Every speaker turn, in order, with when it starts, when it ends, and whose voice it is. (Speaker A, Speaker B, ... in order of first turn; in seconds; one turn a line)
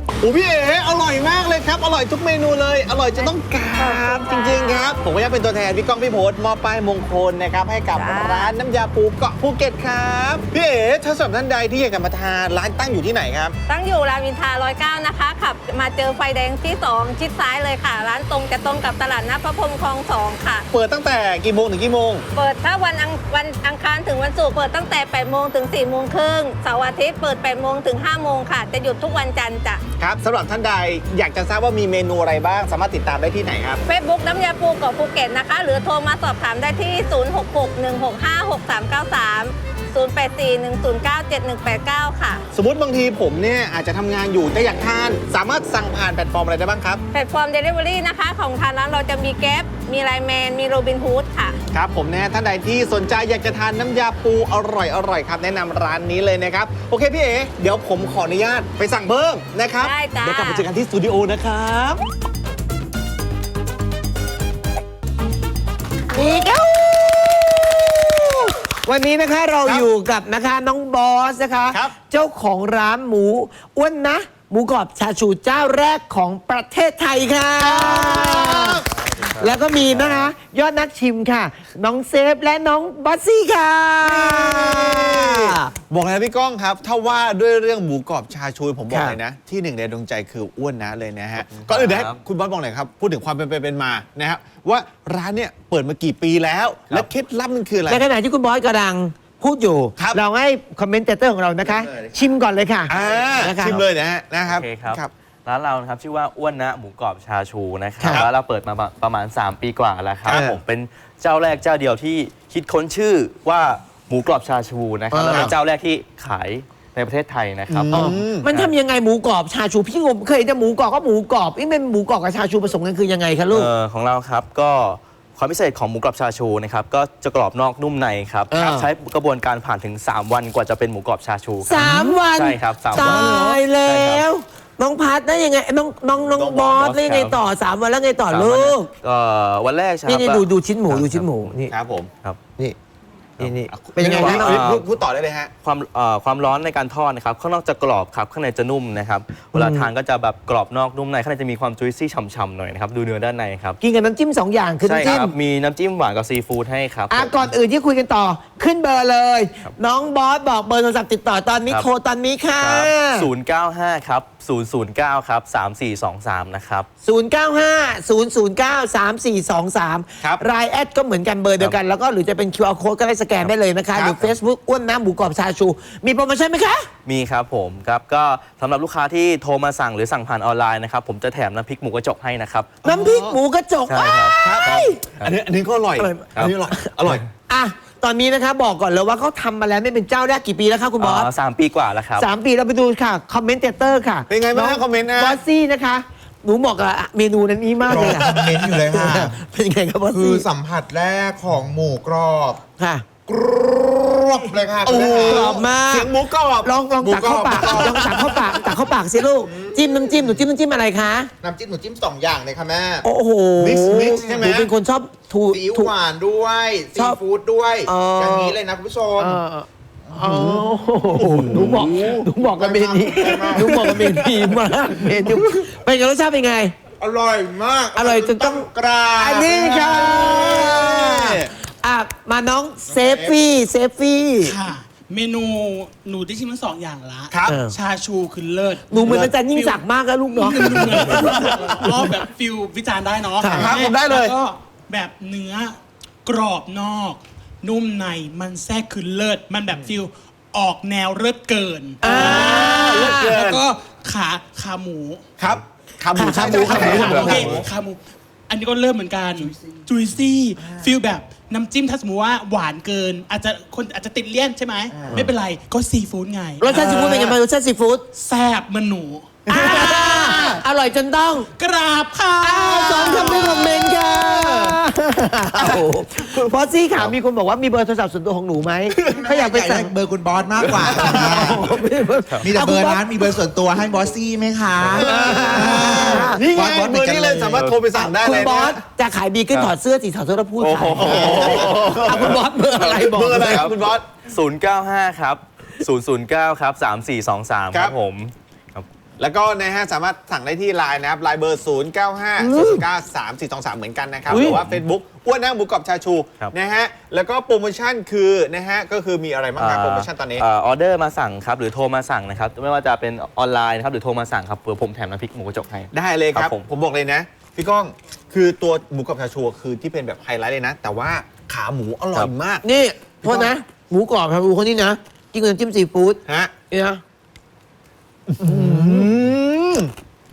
Speaker A: 0.2-13.6
Speaker B: 3.8-4.8
Speaker B: 8.0-8.5
Speaker B: 13.7-20.7
Speaker A: 20.7-22.2
Speaker B: 22.4-29.8
Speaker A: 30.0-33.8
Speaker B: 33.9-42.4
Speaker A: 42.5-47.0
Speaker B: 47.1-51.6
Speaker A: 51.7-62.0
Speaker B: 59.8-60.6
Speaker C: 66.1-78.8
Speaker A: 77.6-78.9
Speaker D: 79.0-80.3
Speaker C: 79.4-85.7
Speaker A: 84.0-98.0
Speaker C: 88.9-89.2
Speaker D: 91.4-92.2
Speaker C: 97.9-103.8
Speaker A: 102.9-105.1
Speaker D: 104.5-118.8
Speaker C: 108.0-108.3
Speaker A: 110.2-110.6
Speaker C: 115.1-115.5
Speaker A: 117.7-118.5
Speaker C: 117.9-123.7
Speaker D: 123.5-134.2
Speaker C: 128.5-128.9
Speaker C: 131.6-138.9
Speaker E: 133.1-133.6
Speaker A: 136.2-136.8
Speaker D: 136.7-137.4
Speaker D: 138.3-141.6
Speaker C: 140.1-141.7
Speaker A: 141.7-142.1
Speaker C: 143.4-144.6
Speaker D: 143.4-144.9
Speaker A: 143.7-145.5
Speaker D: 145.6-153.8
Speaker C: 149.5-149.9
Speaker C: 153.8-155.3
Speaker D: 154.8-157.5
Speaker C: 157.1-163.3
Speaker D: 162.6-166.9
Speaker C: 167.0-176.9
Speaker A: 173.9-174.3
Speaker D: 177.1-182.8
Speaker A: 182.8-183.4
Speaker C: 182.8-185.0
Speaker D: 183.9-185.4
Speaker A: 184.4-187.3
Speaker C: 186.0-191.3
Speaker D: 191.0-192.3
Speaker C: 192.2-200.4
Speaker A: 194.3-195.4
Speaker A: 197.9-198.7
Speaker E: 197.9-199.4
Speaker E: 200.1-202.6
Speaker C: 202.8-203.1
Speaker E: 203.3-205.6
Speaker A: 204.8-208.8
Speaker C: 204.9-211.3
Speaker E: 207.1-208.6
Speaker E: 209.5-210.2
Speaker E: 211.4-213.0
Speaker C: 213.0-215.9
Speaker A: 213.6-214.7
Speaker E: 214.1-214.4
Speaker E: 215.5-219.4
Speaker C: 216.9-217.2
Speaker C: 217.9-218.6
Speaker C: 219.2-226.7
Speaker E: 220.1-225.6
Speaker E: 227.0-230.8
Speaker C: 227.9-228.7
Speaker C: 229.2-234.6
Speaker A: 229.2-231.5
Speaker E: 232.9-233.4
Speaker F: 234.4-255.2
Speaker A: 237.3-237.6
Speaker C: 237.5-237.8
Speaker C: 238.9-241.3
Speaker A: 240.6-241.4
Speaker C: 243.4-243.7
Speaker A: 243.5-244.3
Speaker C: 252.0-253.4
Speaker A: 252.0-253.6
Speaker A: 255.4-257.7
Speaker C: 256.1-257.6
Speaker F: 256.4-267.4
Speaker E: 257.3-257.6
Speaker E: 264.9-265.2
Speaker C: 266.6-268.1
Speaker F: 268.1-270.6
Speaker C: 269.5-271.5
Speaker F: 271.6-273.8
Speaker C: 272.4-279.9
Speaker E: 273.1-274.8
Speaker E: 279.1-281.7
Speaker C: 280.6-283.4
Speaker D: 280.6-281.6
Speaker E: 282.4-287.7
Speaker C: 284.9-286.4
Speaker A: 284.9-288.8
Speaker C: 287.9-293.7
Speaker D: 290.6-291.6
Speaker A: 290.9-294.0
Speaker E: 291.0-291.9
Speaker D: 293.3-293.8
Speaker D: 294.3-298.9
Speaker A: 299.2-310.4
Speaker C: 302.4-302.8
Speaker D: 304.3-304.8
Speaker C: 304.3-304.6
Speaker D: 309.6-316.7
Speaker A: 315.9-322.6
Speaker C: 322.6-326.2
Speaker A: 323.2-323.5
Speaker A: 326.3-326.5
Speaker C: 326.7-327.0
Speaker A: 328.3-329.9
Speaker C: 328.4-329.1